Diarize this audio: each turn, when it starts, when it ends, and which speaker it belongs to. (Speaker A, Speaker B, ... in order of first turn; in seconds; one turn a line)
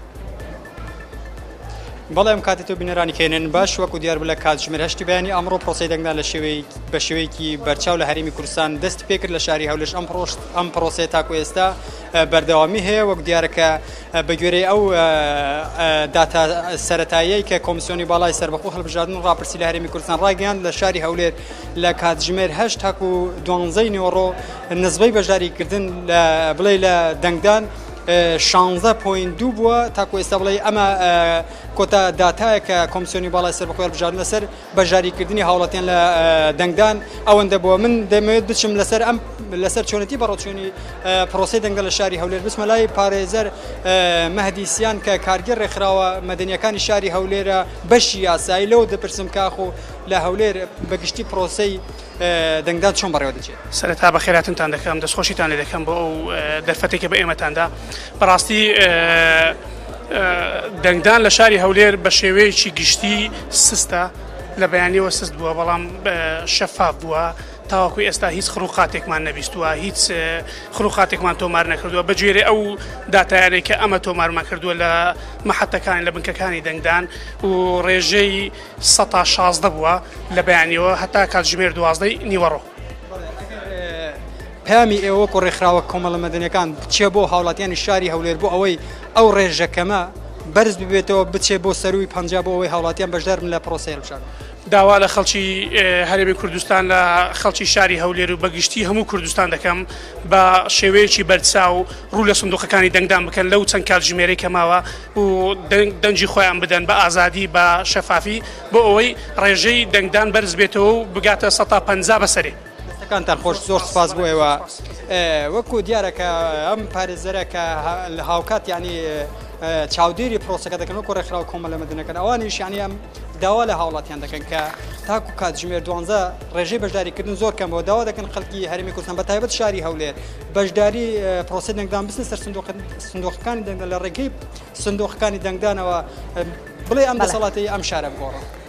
Speaker A: 2.1-53.6
Speaker B: 53.7-59.6
Speaker B: 60.1-82.7
Speaker A: 83.1-94.3
Speaker B: 94.7-112.6
Speaker A: 112.9-138.4
Speaker B: 113.4-114.8